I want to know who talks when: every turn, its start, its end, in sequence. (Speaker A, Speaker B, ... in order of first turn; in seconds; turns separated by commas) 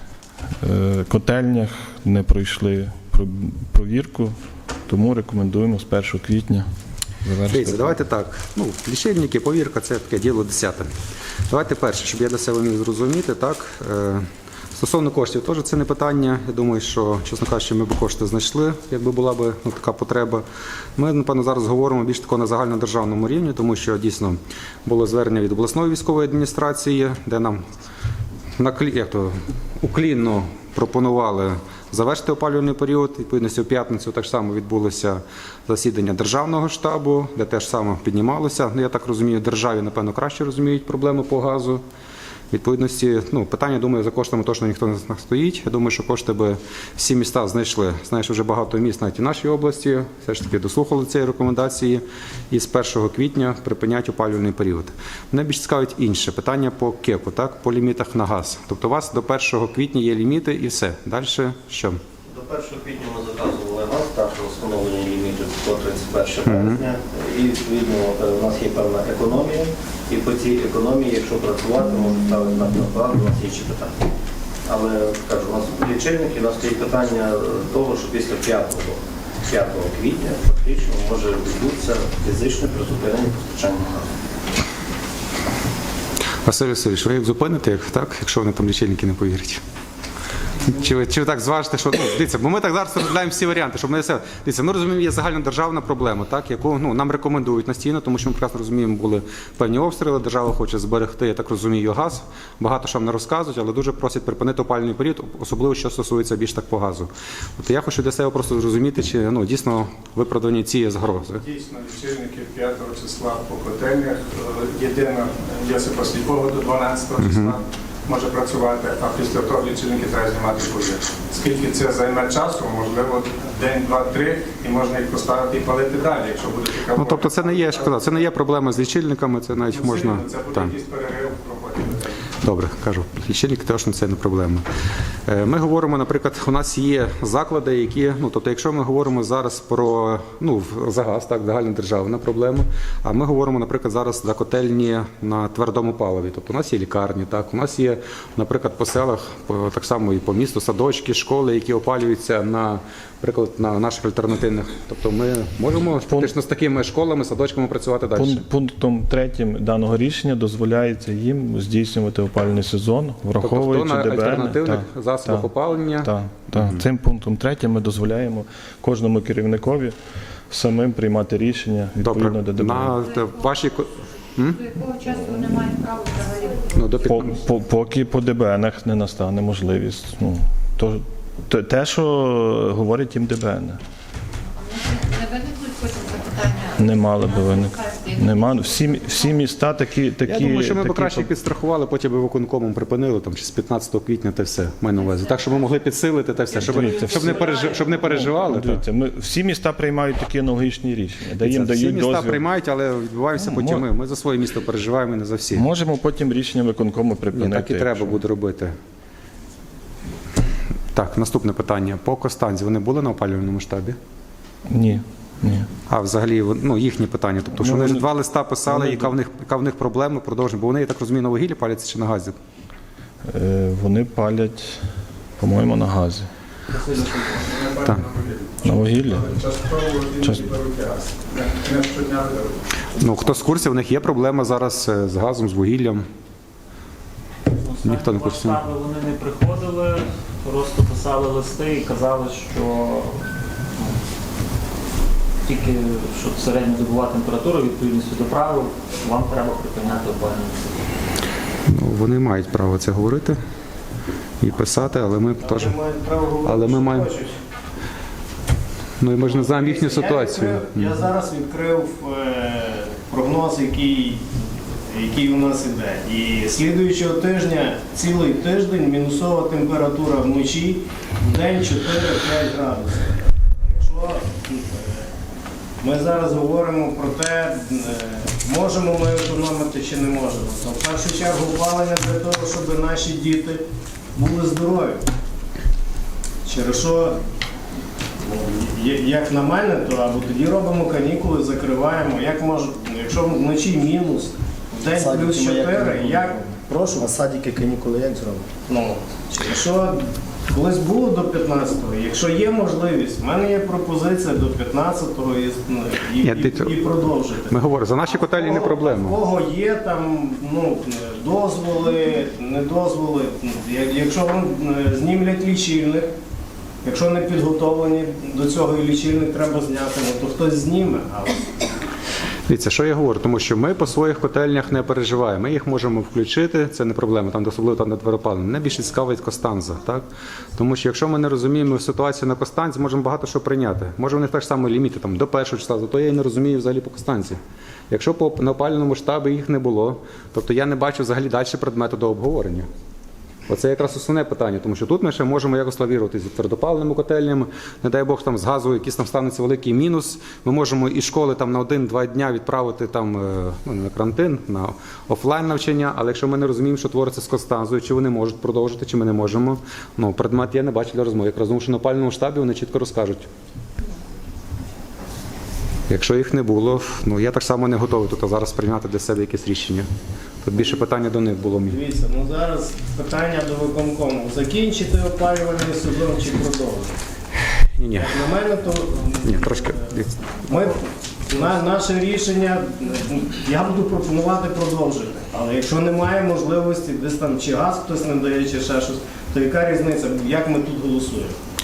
Speaker A: 0.6-4.3, Speaker A: 4.9-6.7, Speaker A: 7.2-8.0, Speaker B: 7.5-10.9, Speaker B: 11.5-20.4, Speaker B: 20.9-27.6, Speaker B: 28.6-41.8, Speaker B: 42.5-62.0, Speaker C: 62.2-74.1, Speaker B: 66.5-66.8, Speaker C: 74.6-84.1, Speaker B: 86.4-89.6, Speaker B: 90.6-111.4, Speaker D: 111.5-128.0, Speaker B: 117.2-117.5, Speaker B: 126.9-130.7, Speaker D: 129.7-132.1, Speaker B: 132.4-134.6, Speaker B: 135.3-158.4, Speaker A: 156.1-156.3, Speaker A: 158.1-169.9, Speaker B: 163.4-166.8, Speaker A: 170.5-173.0, Speaker B: 172.0-174.7, Speaker A: 175.1-175.8, Speaker E: 175.9-176.5, Speaker B: 176.7-177.3, Speaker A: 177.0-183.8, Speaker E: 184.8-186.7, Speaker A: 186.8-191.3, Speaker B: 190.2-198.8, Speaker A: 196.5-202.4, Speaker B: 201.4-205.6, Speaker A: 203.4-203.9, Speaker A: 205.5-208.2, Speaker B: 207.3-208.7, Speaker B: 210.9-214.0, Speaker A: 214.7-215.7, Speaker B: 215.9-222.3, Speaker A: 217.6-218.1, Speaker A: 218.6-219.1, Speaker A: 223.3-224.8, Speaker A: 225.4-226.3, Speaker F: 226.7-227.5, Speaker D: 227.6-228.4, Speaker A: 228.6-229.3, Speaker D: 229.2-232.6, Speaker A: 230.2-230.5, Speaker B: 232.9-236.1, Speaker F: 237.5-244.0, Speaker B: 237.8-238.6, Speaker F: 245.4-250.8, Speaker B: 251.7-253.4, Speaker B: 254.4-255.7, Speaker G: 255.4-257.4, Speaker B: 256.4-257.1, Speaker B: 259.0-261.0, Speaker G: 259.2-264.3, Speaker G: 264.9-275.1, Speaker G: 275.8-283.6, Speaker G: 284.1-285.0, Speaker G: 286.4-287.2, Speaker G: 288.2-297.2, Speaker H: 294.9-296.4, Speaker H: 297.0-298.5, Speaker G: 298.7-307.5, Speaker B: 306.2-306.7, Speaker B: 307.5-309.2, Speaker G: 308.2-316.1, Speaker G: 316.8-321.4, Speaker B: 322.5-337.4, Speaker B: 337.9-342.7, Speaker B: 343.5-363.3, Speaker B: 365.9-369.9, Speaker B: 370.4-371.8, Speaker G: 370.6-370.9, Speaker G: 371.6-376.9, Speaker B: 377.8-378.2, Speaker G: 377.9-379.9, Speaker B: 379.2-380.6, Speaker G: 380.4-391.3